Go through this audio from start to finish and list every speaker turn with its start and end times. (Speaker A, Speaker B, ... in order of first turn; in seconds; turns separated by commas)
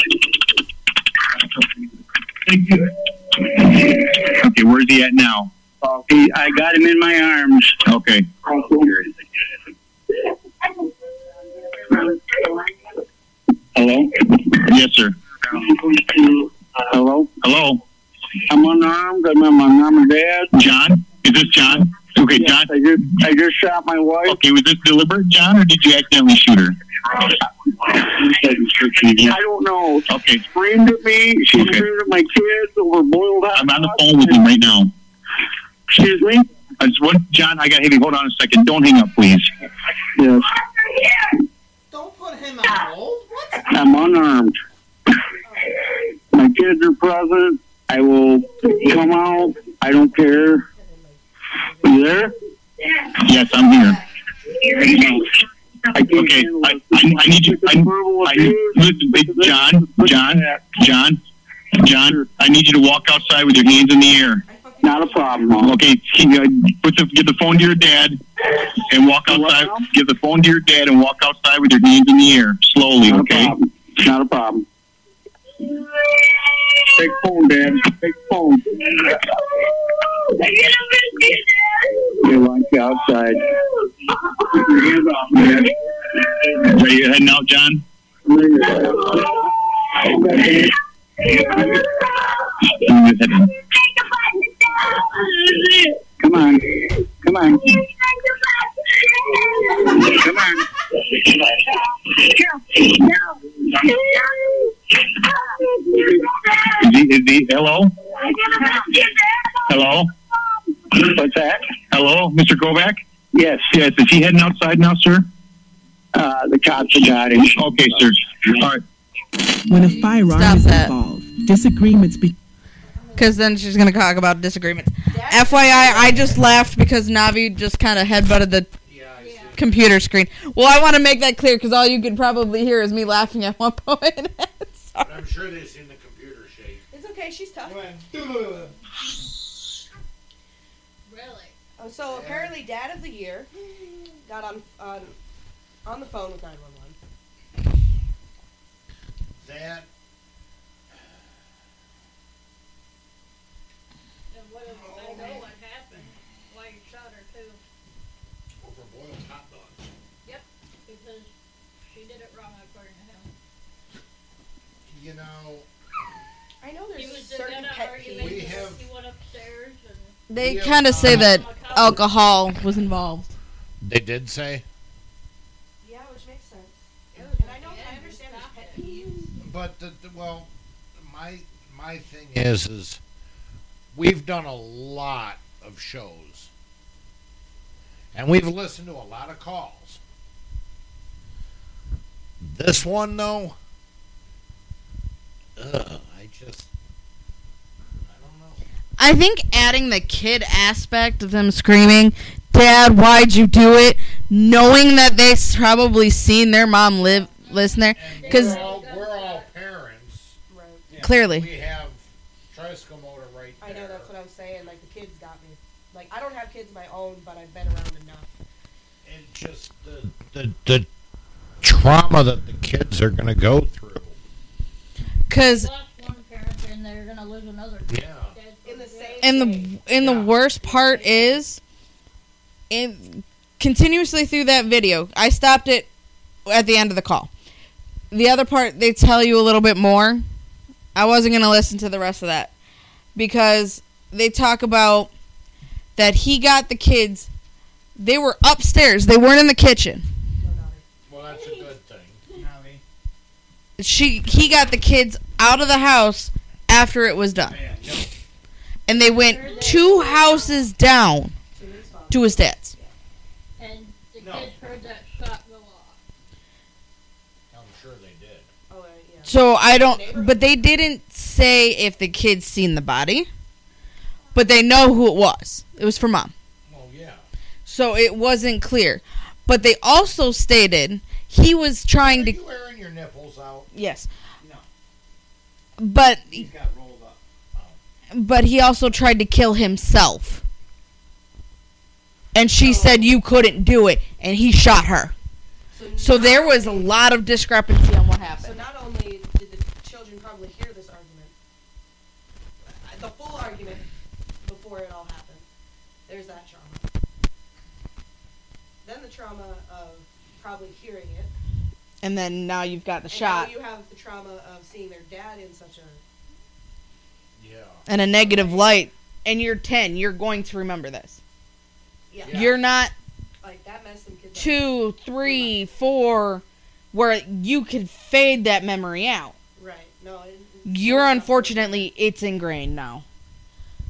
Speaker A: 3.9-5.5, Speaker B: 5.8-7.8, Speaker A: 7.8-8.3, Speaker B: 8.4-9.1, Speaker B: 11.9-12.5, Speaker B: 13.8-14.2, Speaker A: 14.6-15.2, Speaker B: 15.8-17.3, Speaker A: 17.4-17.8, Speaker B: 18.5-20.5, Speaker A: 20.5-22.7, Speaker B: 22.3-24.4, Speaker A: 24.3-26.8, Speaker B: 27.9-34.5, Speaker A: 30.1-30.5, Speaker A: 31.5-31.9, Speaker A: 33.5-34.9, Speaker B: 35.9-36.5, Speaker A: 36.8-39.5, Speaker B: 40.1-40.5, Speaker C: 41.9-43.5, Speaker B: 43.6-44.5, Speaker D: 45.4-45.8, Speaker B: 46.3-50.6, Speaker D: 50.7-52.1, Speaker B: 51.8-52.3, Speaker A: 53.2-54.0, Speaker B: 54.6-55.3, Speaker B: 55.9-60.6, Speaker A: 56.0-61.2, Speaker A: 61.8-64.4, Speaker B: 62.0-62.3, Speaker D: 64.4-65.6, Speaker B: 64.8-65.8, Speaker A: 65.6-68.2, Speaker A: 68.9-73.5, Speaker B: 69.3-69.9, Speaker B: 73.1-74.7, Speaker B: 76.9-79.2, Speaker B: 82.1-83.6, Speaker B: 84.5-85.7, Speaker A: 86.4-87.8, Speaker B: 88.3-89.2, Speaker A: 92.7-93.5, Speaker B: 95.5-97.8, Speaker B: 99.9-100.6, Speaker B: 102.3-103.1, Speaker A: 106.7-107.9, Speaker A: 109.7-110.1, Speaker B: 110.9-111.7, Speaker A: 111.9-113.0, Speaker B: 113.3-113.8, Speaker A: 113.7-115.2, Speaker B: 116.1-117.6, Speaker A: 117.5-118.8, Speaker E: 119.7-122.4, Speaker F: 120.2-120.9, Speaker D: 122.9-123.4, Speaker F: 123.2-128.7, Speaker D: 125.1-126.4, Speaker G: 128.9-129.9, Speaker H: 129.2-129.6, Speaker F: 129.5-135.2, Speaker G: 135.0-136.8, Speaker D: 136.9-137.9, Speaker C: 137.6-138.7, Speaker H: 141.1-141.6, Speaker D: 141.8-143.5, Speaker G: 142.1-142.5, Speaker D: 144.2-145.2, Speaker D: 145.8-147.0, Speaker G: 149.4-149.9, Speaker H: 154.3-157.6, Speaker C: 154.7-155.4, Speaker G: 158.6-159.9, Speaker H: 160.2-161.3, Speaker H: 161.9-163.3, Speaker G: 164.9-165.7, Speaker D: 166.6-168.7, Speaker H: 166.9-170.2, Speaker G: 168.1-168.8, Speaker F: 170.3-173.3, Speaker G: 170.4-171.5, Speaker H: 170.9-172.2, Speaker G: 173.8-174.7, Speaker D: 175.8-179.3, Speaker H: 177.2-179.0, Speaker G: 179.4-183.0, Speaker G: 183.9-186.5, Speaker G: 188.1-190.0, Speaker G: 192.4-193.6, Speaker G: 195.6-196.7, Speaker G: 198.1-198.6, Speaker F: 199.0-208.7, Speaker H: 207.2-209.5, Speaker G: 207.9-210.4, Speaker D: 210.5-210.9, Speaker C: 210.9-211.1, Speaker F: 211.0-211.5, Speaker G: 211.2-214.1, Speaker D: 213.6-218.3, Speaker G: 219.1-220.9, Speaker G: 221.6-224.2, Speaker F: 225.3-225.7, Speaker H: 225.3-229.5, Speaker G: 227.9-228.4, Speaker D: 228.6-229.8, Speaker F: 229.2-231.6, Speaker D: 230.6-231.4, Speaker F: 232.7-235.9, Speaker F: 236.5-237.3, Speaker F: 238.1-240.2, Speaker F: 240.9-242.5, Speaker F: 243.2-245.1, Speaker F: 246.0-247.3, Speaker F: 248.0-250.1, Speaker D: 250.4-250.8, Speaker G: 251.1-252.2, Speaker H: 251.2-251.7, Speaker C: 252.3-252.8, Speaker F: 253.8-257.6, Speaker C: 257.4-258.1, Speaker G: 257.8-258.1, Speaker F: 258.9-261.4, Speaker H: 259.1-260.7, Speaker D: 259.5-259.9, Speaker D: 261.6-262.9, Speaker F: 262.1-262.7, Speaker H: 263.6-266.0, Speaker C: 264.2-264.5, Speaker G: 267.5-268.5, Speaker D: 268.7-270.6, Speaker F: 269.2-273.3, Speaker F: 274.3-276.3, Speaker G: 276.7-277.2, Speaker F: 277.6-282.4, Speaker G: 282.0-283.7, Speaker F: 283.7-284.1, Speaker C: 284.4-284.7, Speaker F: 285.8-286.5, Speaker C: 286.3-287.2, Speaker F: 288.1-290.4, Speaker F: 292.3-295.1, Speaker D: 292.6-293.2, Speaker D: 295.7-296.9, Speaker F: 296.0-298.6, Speaker D: 298.4-301.3, Speaker D: 302.6-303.9, Speaker D: 304.4-305.5, Speaker D: 306.1-306.9, Speaker D: 308.8-311.3, Speaker F: 312.0-313.6, Speaker D: 313.1-316.0, Speaker G: 317.4-317.9, Speaker F: 317.9-321.2, Speaker D: 318.1-318.8, Speaker D: 322.1-322.6, Speaker G: 322.2-322.6, Speaker F: 322.3-322.9, Speaker D: 323.4-325.6, Speaker F: 324.4-329.4, Speaker D: 329.6-331.9, Speaker F: 330.7-333.0